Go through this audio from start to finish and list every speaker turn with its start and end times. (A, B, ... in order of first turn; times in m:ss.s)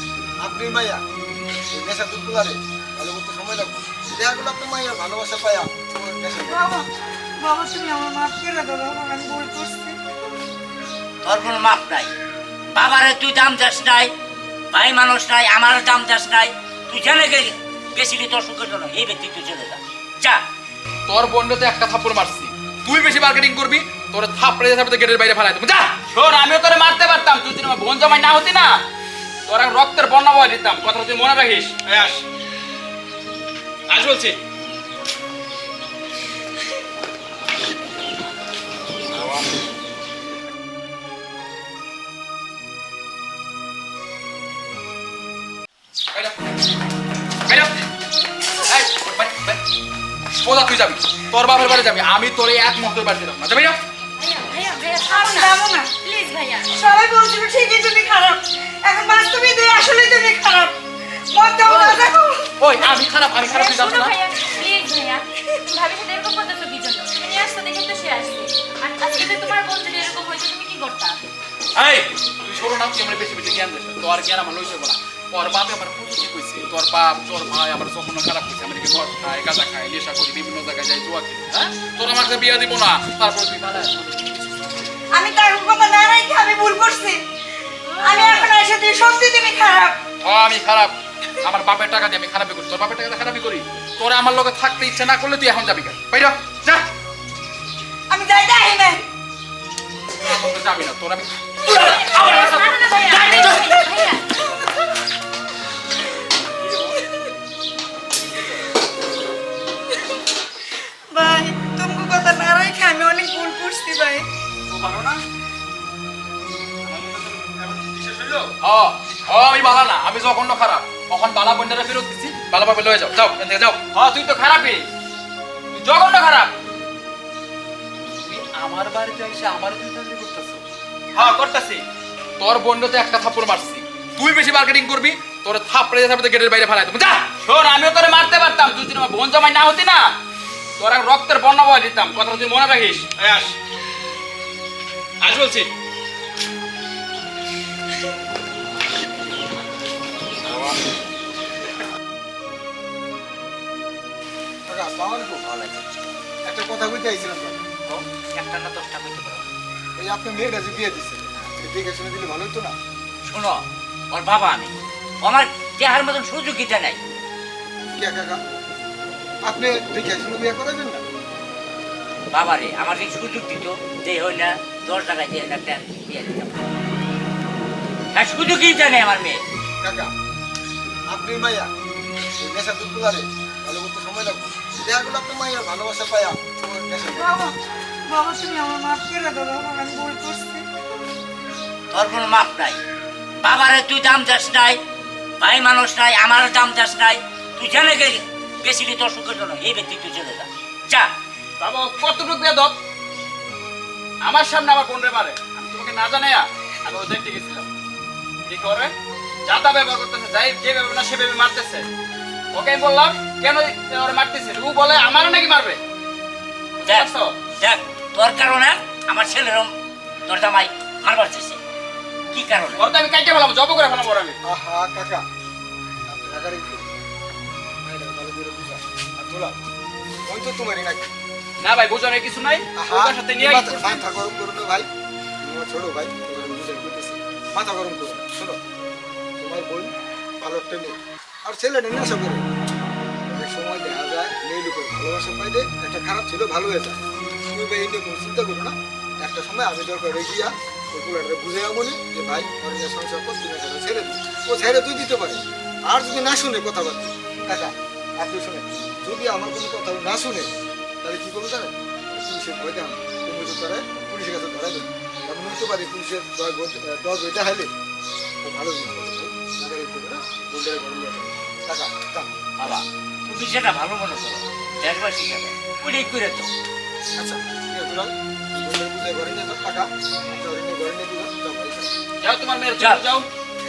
0:00.4-0:01.0 A
0:01.7-0:06.6 A
0:06.4-0:10.0 B
0:11.2-0:12.1 C
0:12.7-0:14.1 C
0:14.7-0:20.4 C
0:21.1-0:26.0 D
0:26.1-0:28.8 E
0:29.5-0:32.2 E
0:33.9-0:34.4 E
0:47.5-0:47.7 D
0:48.7-0:49.6 D
0:50.4-0:53.8 D
0:54.2-0:56.7 F
0:55.1-0:55.9 B
0:56.7-1:00.8 B
1:01.3-1:02.4 B
1:01.7-1:02.0 D
1:02.6-1:04.2 D
1:03.4-1:11.2 F
1:11.8-1:24.4 D
1:25.1-1:27.2 B
1:28.0-1:30.0 B
1:28.1-1:28.5 F
1:30.2-1:36.9 D
1:38.1-1:39.0 B
1:40.2-1:43.7 D
1:41.7-1:43.9 B
1:41.9-1:44.3 F
1:51.1-1:54.2 B
1:54.7-1:55.2 E
1:56.8-1:58.5 E
1:58.6-2:03.8 D
2:03.9-2:04.9 E
2:05.7-2:06.5 E
2:08.3-2:10.6 D
2:11.2-2:11.8 E
2:12.4-2:17.3 D
2:17.4-2:20.2 E
2:20.8-2:23.6 E
2:25.2-2:25.7 E
2:34.7-2:35.4 A
2:35.4-2:36.1 C
2:36.5-2:37.7 A
2:37.9-2:39.5 C
2:40.0-2:42.8 A
2:43.2-2:47.0 C
2:48.0-2:48.4 A
2:49.4-2:51.0 A
2:52.3-2:56.6 C
2:58.1-2:59.4 C
2:59.8-3:00.1 A
3:01.1-3:01.7 A
3:02.4-3:07.3 A
3:07.1-3:07.6 B
3:08.1-3:10.6 B
3:11.9-3:12.8 C
3:13.4-3:14.8 C
3:15.4-3:21.1 C
3:21.6-3:22.8 E
3:24.2-3:27.7 E
3:28.5-3:28.9 E
3:29.5-3:31.9 E
3:32.5-3:35.8 E
3:36.8-3:37.4 E
3:36.8-3:39.7 C
3:40.3-3:41.6 C
3:42.3-3:42.9 C
3:42.8-3:44.4 E
3:44.4-3:45.2 A
3:46.1-3:46.9 A
3:47.8-3:49.6 A
3:50.3-3:51.1 A
3:51.6-3:54.0 E
3:52.8-3:54.9 A
3:55.4-3:58.6 A
3:59.4-4:02.4 A
4:03.3-4:27.7 A
4:28.4-4:32.3 A
4:32.6-4:36.5 C
4:37.2-4:41.9 A
4:42.2-4:43.3 E
4:42.8-4:43.0 C